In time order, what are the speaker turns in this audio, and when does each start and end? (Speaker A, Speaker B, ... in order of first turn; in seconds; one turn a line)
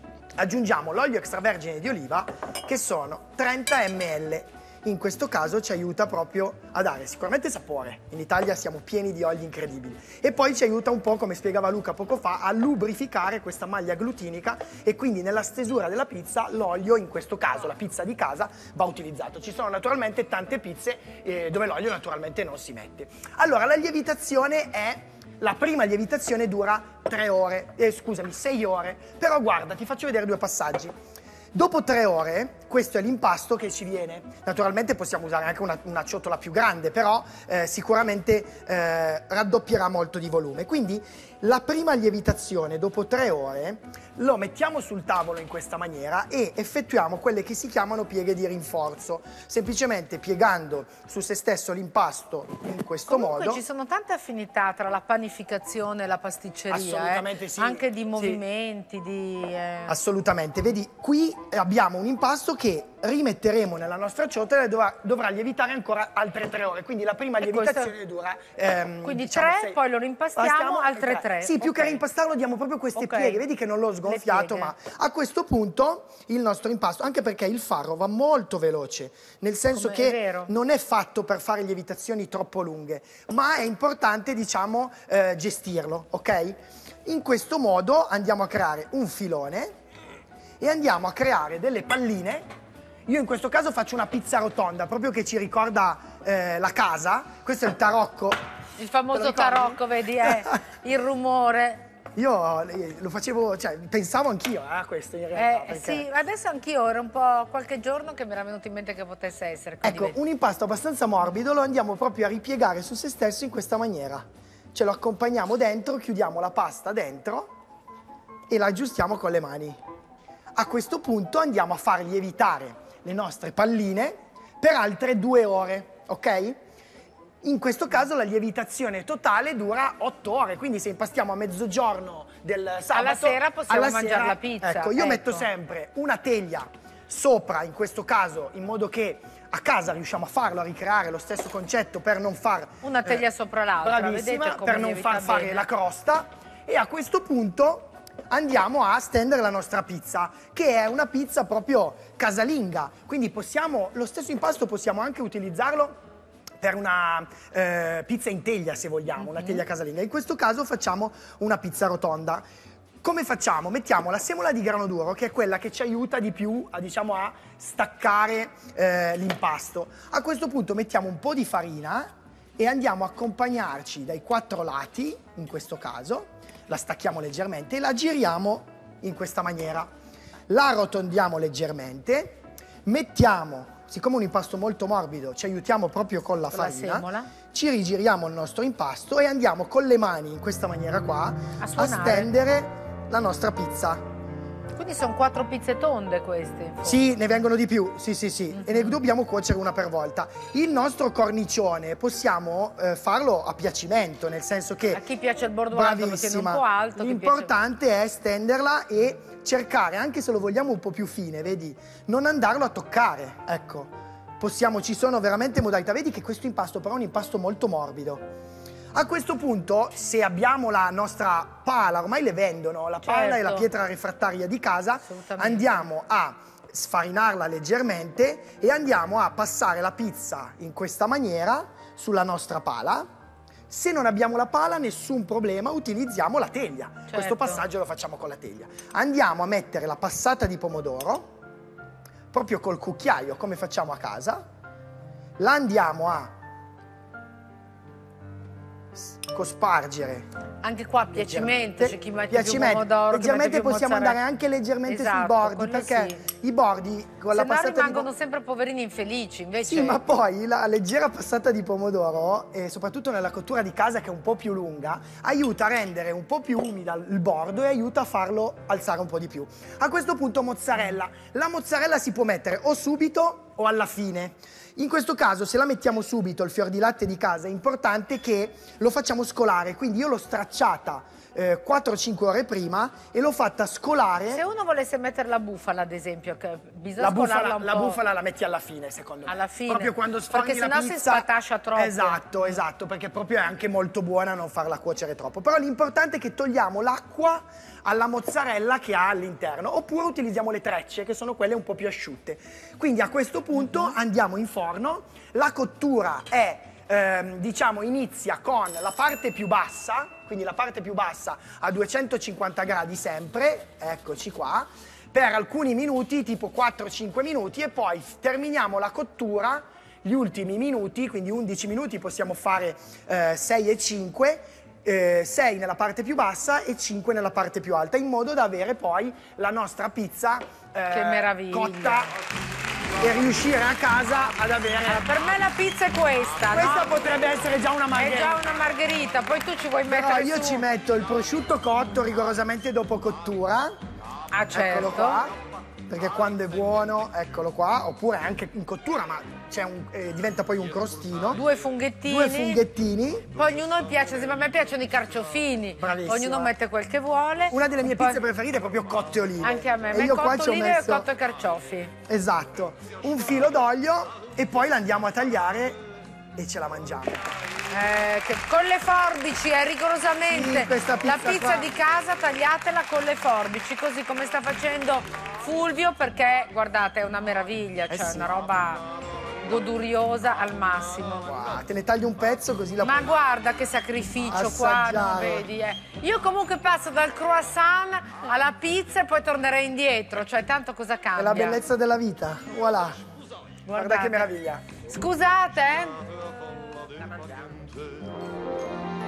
Speaker A: 0.4-30.9
Speaker A: 31.5-53.6
Speaker B: 53.1-60.0
Speaker A: 56.7-58.4
Speaker A: 59.9-69.8
Speaker B: 67.4-67.9
Speaker B: 69.0-72.0
Speaker A: 70.4-89.7
Speaker B: 73.0-73.4
Speaker B: 74.0-74.7
Speaker B: 79.7-80.5
Speaker A: 90.6-92.5
Speaker A: 93.1-98.4
Speaker B: 98.8-101.8
Speaker A: 99.1-100.5
Speaker A: 102.2-106.1
Speaker B: 105.3-110.2
Speaker A: 109.8-117.5
Speaker A: 118.5-119.8
Speaker A: 120.5-126.6
Speaker A: 127.4-143.2
Speaker B: 132.9-135.5
Speaker B: 142.8-145.7
Speaker A: 143.8-156.0
Speaker A: 156.6-162.4
Speaker B: 159.2-159.6
Speaker A: 163.0-179.9
Speaker A: 180.5-194.0
Speaker B: 186.5-187.3
Speaker B: 191.6-192.3
Speaker B: 194.8-197.1
Speaker A: 196.8-205.0
Speaker B: 198.5-199.0
Speaker B: 204.9-207.5
Speaker A: 205.7-218.2
Speaker A: 218.9-233.1
Speaker B: 223.0-223.7
Speaker B: 225.0-225.9
Speaker A: 233.7-241.3
Speaker B: 237.1-237.6
Speaker A: 242.3-244.4
Speaker A: 245.4-246.3
Speaker A: 248.9-250.3
Speaker B: 250.6-254.2
Speaker A: 251.1-258.1
Speaker B: 254.9-256.2
Speaker B: 257.3-260.0
Speaker A: 259.7-284.4
Speaker B: 284.3-288.0
Speaker A: 287.0-332.1
Speaker B: 289.3-292.6
Speaker B: 303.6-303.9
Speaker B: 330.9-332.1
Speaker A: 333.0-335.1
Speaker B: 334.8-336.9
Speaker A: 336.5-338.4
Speaker B: 337.9-340.7
Speaker A: 339.9-343.7
Speaker B: 344.3-345.2
Speaker A: 344.5-345.3
Speaker A: 345.9-351.4
Speaker B: 351.3-352.6
Speaker A: 352.1-353.3
Speaker B: 353.3-358.2
Speaker A: 355.8-356.5
Speaker A: 357.5-361.1
Speaker B: 359.4-361.9
Speaker A: 362.1-365.8
Speaker A: 366.4-367.3
Speaker B: 367.7-378.9
Speaker A: 370.3-371.7
Speaker A: 377.9-378.3
Speaker B: 379.4-381.4
Speaker A: 381.2-383.1
Speaker B: 382.8-391.6
Speaker A: 384.3-385.5
Speaker A: 391.2-393.0
Speaker B: 393.7-394.3
Speaker A: 393.8-394.7
Speaker B: 394.9-396.0